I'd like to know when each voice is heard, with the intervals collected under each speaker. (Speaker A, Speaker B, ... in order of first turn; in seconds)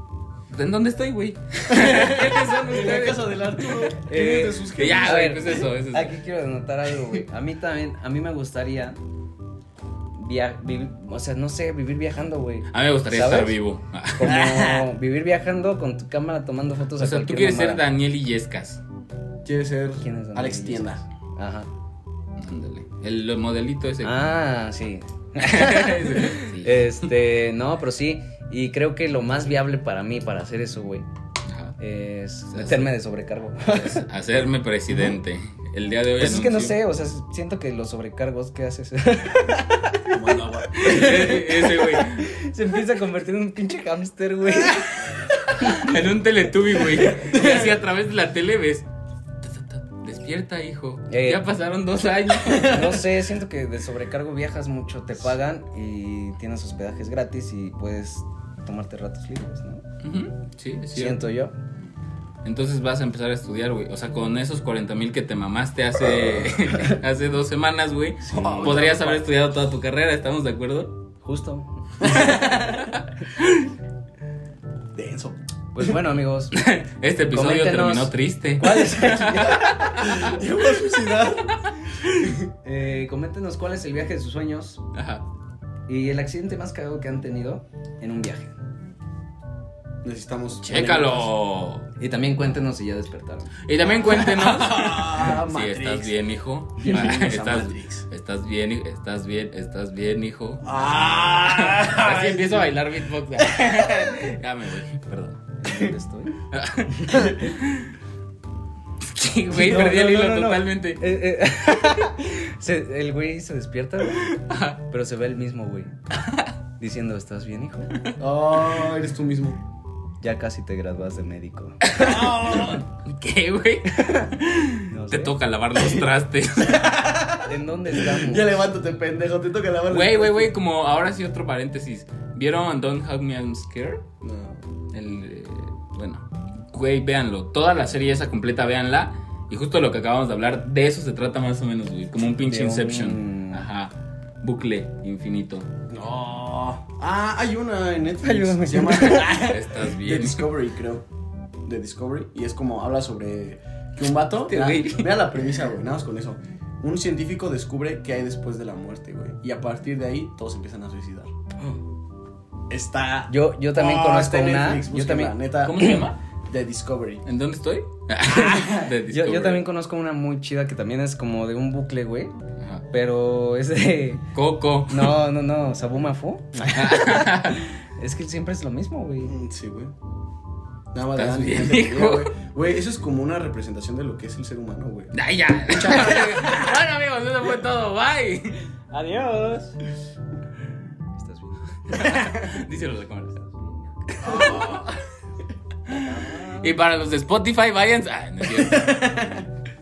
Speaker A: 0.5-3.6, 4.8-6.2, 12.7-14.7, 17.0-18.8, 22.4-24.1, 25.4-27.1, 31.5-31.8, 32.5-32.9, 33.7-36.8, 40.8-42.3, 45.6-48.9, 49.4-53.1, 60.0-61.2, 62.4-70.9, 72.0-73.7, 76.5-79.7, 81.9-82.2, 84.9-85.2, 90.6-91.9, 93.7-100.7, 101.5-105.4, 106.5-107.9, 109.0-111.0, 114.2-114.8, 121.8-127.0, 129.9-134.0, 134.9-145.7, 149.3-150.5, 154.5-155.4, 165.6-166.2, 167.2-169.6, 174.3-175.2, 176.7-177.6, 181.2-182.3, 185.1-188.6, 191.9-193.4, 194.2-194.7, 195.9-199.2
Speaker B: 1.7-5.6, 19.4-21.0, 40.1-41.3, 68.3-69.2, 72.0-72.5, 75.0-75.4, 79.2-81.6, 82.2-82.5, 90.0-91.3, 93.8-96.2, 96.8-98.1, 100.6-102.8, 103.4-104.2, 118.2-119.6, 122.0-122.8, 126.6-130.5, 134.2-134.7, 145.9-151.1, 151.7-161.3, 162.7-167.2, 179.2-179.9, 180.9-185.1, 185.7-186.7, 194.2-195.0, 198.5-199.4
Speaker C: 4.0-9.0, 10.2-13.6, 14.1-17.8, 20.0-21.7, 24.0-31.1, 31.8-34.0, 34.9-35.2, 36.2-45.9, 46.9-47.4, 51.1-51.5, 52.4-59.8, 60.9-61.5, 68.2-69.2, 71.2-73.0, 75.7-76.5, 77.3-80.1, 82.6-84.8, 85.9-88.5, 92.0-93.5, 105.6-107.5, 109.5-116.0, 116.8-118.0, 120.2-122.1, 124.9-125.4, 127.5-128.6, 142.5-143.7, 148.2-149.4, 163.3-166.0, 168.2-172.3, 172.9-174.3, 174.9-179.3, 188.9-189.8, 191.2-192.3, 193.4-194.6, 195.9-196.8